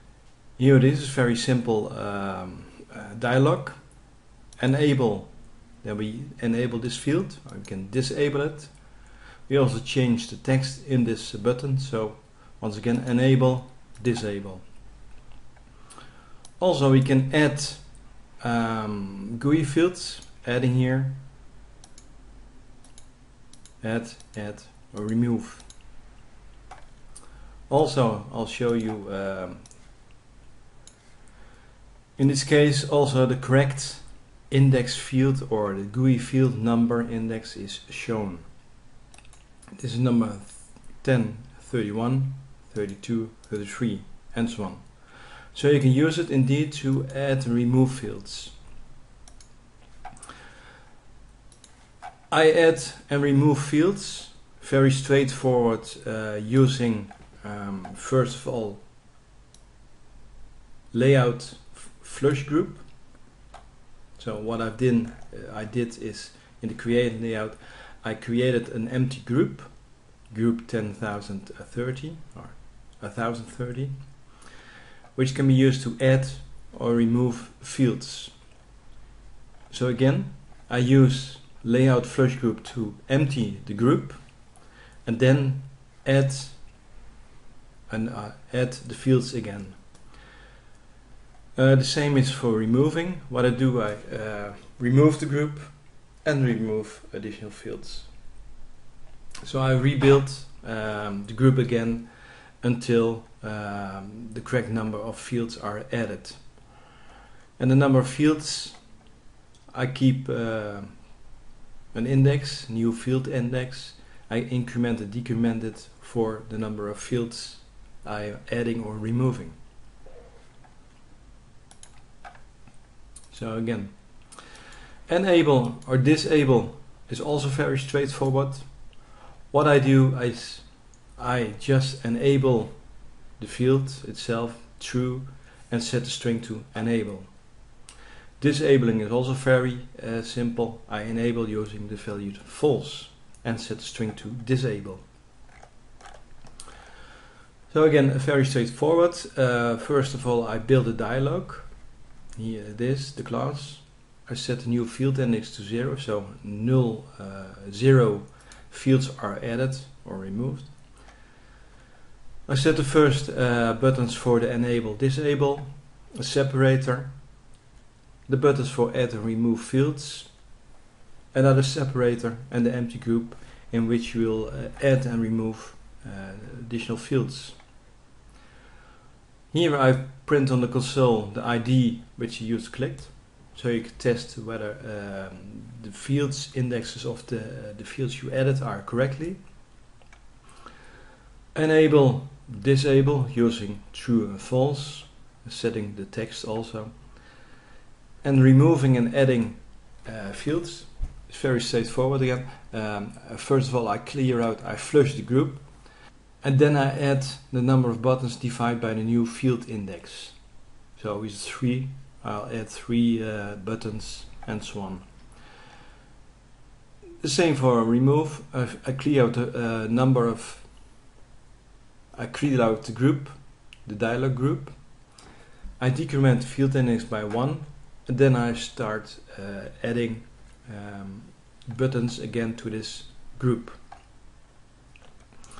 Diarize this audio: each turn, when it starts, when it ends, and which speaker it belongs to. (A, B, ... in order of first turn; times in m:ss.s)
0:00.6-0:14.7 A
0:16.6-0:21.2 A
0:23.8-0:25.7 A
0:27.7-0:29.8 A
0:32.2-0:38.6 A
0:39.8-0:48.6 A
0:52.3-0:58.9 A
1:00.9-1:03.1 A
1:04.2-1:14.5 A
1:15.1-1:18.5 A
1:19.7-1:26.8 A
1:27.9-1:30.2 A
1:31.6-1:38.3 A
1:39.4-1:46.7 A
1:47.6-1:49.0 A
1:49.7-1:51.2 A
1:51.9-1:59.6 A
2:03.3-2:04.5 A
2:05.1-2:17.8 A
2:18.4-2:25.1 A
2:27.7-2:41.2 A
2:42.5-2:47.5 A
2:48.3-2:50.5 A
2:51.3-2:57.6 A
2:59.5-3:09.6 A
3:11.5-3:17.4 A
3:18.2-3:35.4 A
3:37.2-3:40.8 A
3:42.1-3:45.2 A
3:45.8-3:53.8 A